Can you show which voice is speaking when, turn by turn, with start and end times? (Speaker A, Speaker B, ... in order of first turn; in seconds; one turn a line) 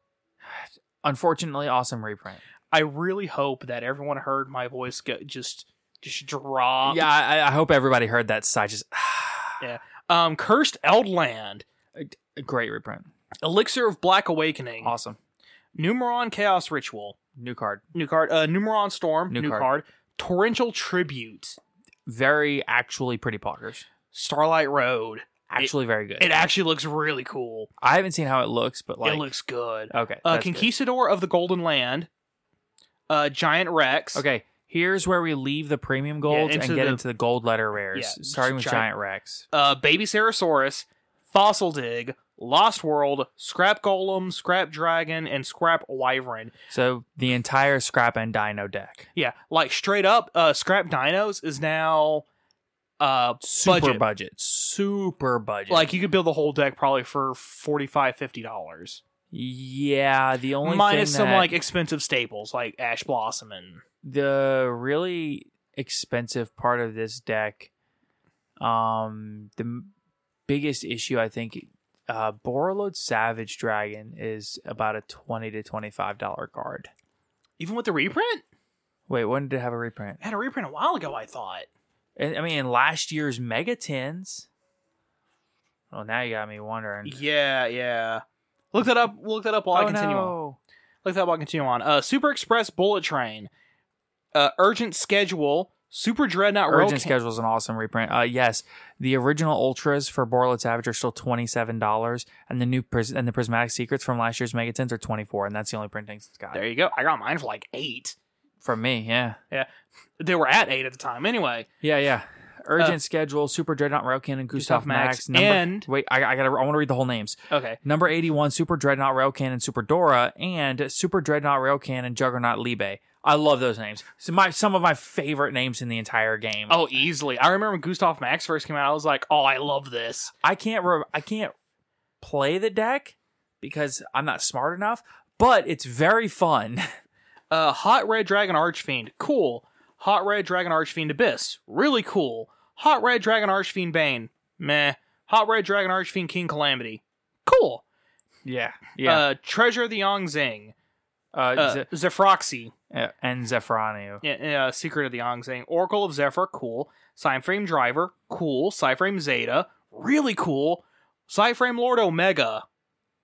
Speaker A: 0.5-2.4
Speaker B: 2.7-7.0
Speaker A: 6.8-9.6
Speaker B: 9.6-11.6
Speaker A: 11.9-13.1
Speaker B: 13.4-14.9
Speaker A: 14.8-15.2
Speaker B: 15.7-17.2
Speaker A: 17.4-17.8
Speaker B: 17.9-21.6
Speaker A: 19.3-19.7
Speaker A: 22.1-23.9
Speaker B: 24.1-27.7
Speaker A: 25.5-26.3
Speaker A: 27.8-29.3
Speaker B: 29.0-32.1
Speaker A: 29.9-30.7
Speaker B: 33.1-34.2
Speaker A: 34.1-39.4
Speaker B: 36.2-37.0
Speaker B: 37.9-38.9
Speaker B: 39.5-46.5
Speaker A: 46.7-49.1
Speaker B: 49.1-52.2
Speaker B: 53.0-54.0
Speaker A: 53.4-55.9
Speaker B: 55.7-59.0
Speaker A: 59.3-61.5
Speaker B: 60.6-63.8
Speaker A: 64.0-67.7
Speaker A: 68.6-69.9
Speaker A: 70.5-76.9
Speaker B: 77.6-78.4
Speaker A: 79.1-80.2
Speaker B: 80.2-81.7
Speaker A: 82.2-84.5
Speaker A: 85.9-87.2
Speaker B: 87.0-90.3
Speaker A: 89.7-90.6
Speaker B: 91.0-93.5
Speaker B: 94.3-97.1
Speaker A: 96.7-106.6
Speaker B: 106.5-108.1
Speaker A: 108.6-109.4
Speaker B: 110.2-111.7
Speaker A: 111.8-126.9
Speaker B: 114.5-115.9
Speaker B: 117.5-117.8
Speaker B: 126.7-130.3
Speaker A: 130.4-131.5
Speaker A: 132.2-136.9
Speaker B: 137.5-147.8
Speaker A: 148.4-149.2
Speaker B: 149.0-150.7
Speaker A: 151.3-151.9
Speaker B: 151.6-152.7
Speaker A: 152.9-154.2
Speaker B: 154.2-162.6